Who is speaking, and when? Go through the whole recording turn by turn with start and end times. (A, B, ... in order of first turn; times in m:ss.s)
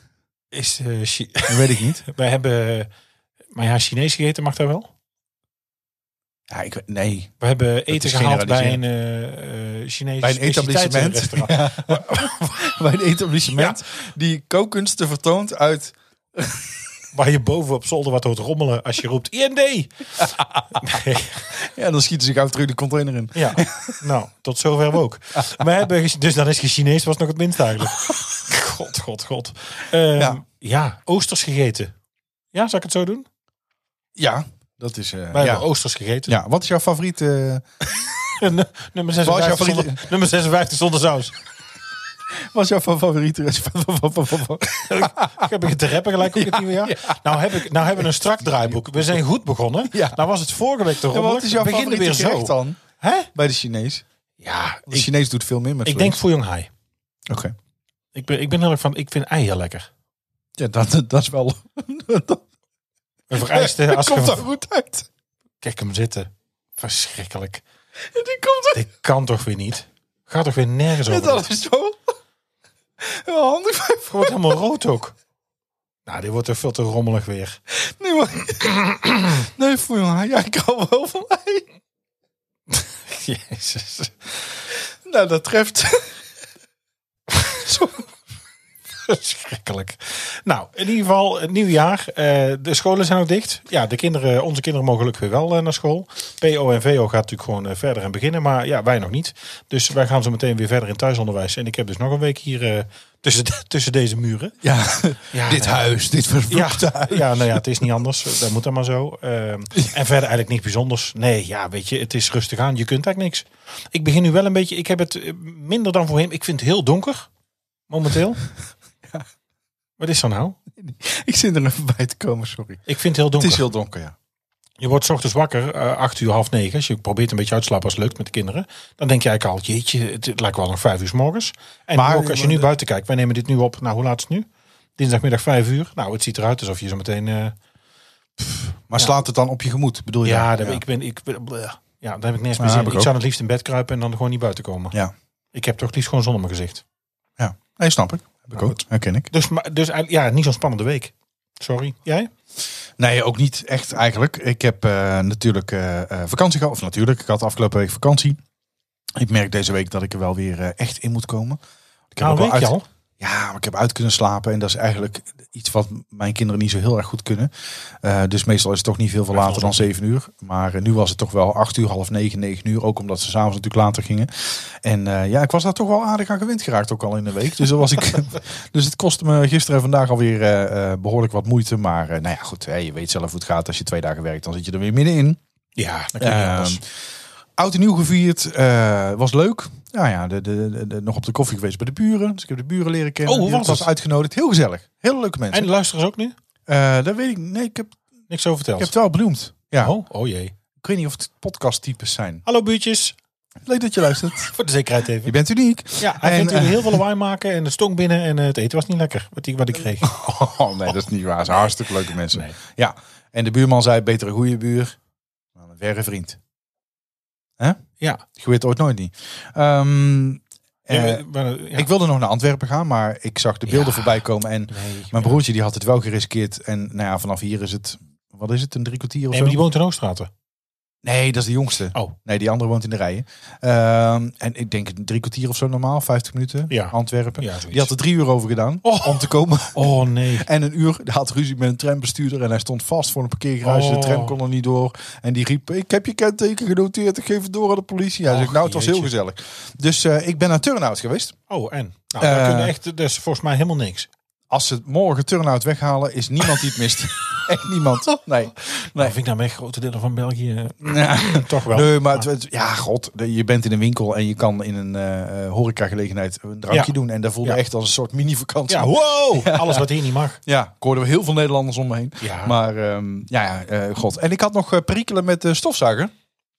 0:00.5-0:02.9 A
0:01.5-0:02.0 B
0:03.5-0:04.9 A
0:06.5-0:07.3 B
0:07.4-0:12.1 A
0:07.9-0:08.8 B
0:10.2-0:16.8 B
0:13.5-0:13.8 A
0:17.1-0:21.5 A
0:20.4-0:20.9 B
0:21.5-0:24.0 B
0:23.3-0:31.9 A
0:32.5-0:33.3 A
0:34.2-0:35.6 B
0:35.3-0:36.4 A
0:36.3-0:38.0 B
0:38.4-0:41.4 A
0:39.2-0:40.0 B
0:42.3-0:45.5 B
0:44.9-0:53.3 A
0:46.2-0:49.2 B
0:49.9-0:50.2 B
0:51.0-0:52.8 B
0:53.3-0:54.0 B
0:54.4-0:55.1 A
0:54.9-0:56.2 B
0:55.8-0:56.7 A
0:57.3-0:57.5 B
0:58.1-0:59.9 A
1:00.6-1:02.4 B
1:03.3-1:04.4 A
1:03.3-1:05.1 B
1:05.6-1:07.6 A
1:08.0-1:08.8 B
1:08.7-1:11.5 A
1:11.0-1:12.1 B
1:13.0-1:14.6 B
1:14.1-1:15.2 A
1:16.0-1:17.6 A
1:17.8-1:21.6 B
1:18.6-1:19.2 A
1:22.7-1:24.4 A
1:25.0-1:26.2 B
1:27.6-1:28.0 B
1:29.0-1:44.5 A
1:44.6-1:47.6 B
1:45.3-1:45.9 A
1:46.5-1:57.3 A
1:57.9-1:58.4 A
2:00.0-2:00.6 A
2:00.7-2:02.8 B
2:02.8-2:03.6 A
2:03.4-2:04.1 B
2:04.8-2:17.6 A
2:11.9-2:12.7 B
2:18.4-2:19.1 A
2:18.9-2:20.8 B
2:20.2-2:25.0 A
2:22.6-2:23.1 B
2:25.5-2:26.8 A
2:27.4-2:29.3 B
2:29.3-2:32.3 A
2:33.0-2:38.4 B
2:39.2-2:47.5 B
2:42.2-2:42.8 A
2:48.0-3:05.4 B
2:49.3-2:49.9 A
3:05.8-3:06.8 A
3:06.2-3:06.8 B
3:07.6-3:15.7 B
3:13.2-3:13.9 A
3:15.5-3:16.3 A
3:16.7-3:18.0 B
3:18.3-3:18.9 A
3:18.8-3:19.9 B
3:19.8-3:20.5 A
3:20.8-3:22.4 B
3:22.4-3:23.1 A
3:23.6-3:24.5 B
3:24.5-3:25.3 A
3:25.2-3:27.0 B
3:26.0-3:30.3 A
3:30.0-3:35.0 B
3:35.6-3:36.4 B
3:38.0-3:38.2 A
3:38.3-3:41.2 B
3:40.9-3:41.9 A
3:41.7-3:49.6 B
3:43.7-3:45.4 A
3:49.3-3:50.3 A
3:51.0-3:59.8 B
3:56.7-3:57.9 A
3:58.8-4:00.5 A
4:00.4-4:11.4 B
4:03.6-4:04.4 A
4:08.2-4:09.1 A
4:11.5-4:14.1 A
4:12.2-4:12.7 B
4:14.5-4:19.1 B
4:18.7-4:22.3 A
4:20.8-4:29.9 B
4:28.7-4:30.4 A
4:30.4-4:36.1 B
4:32.2-4:32.6 A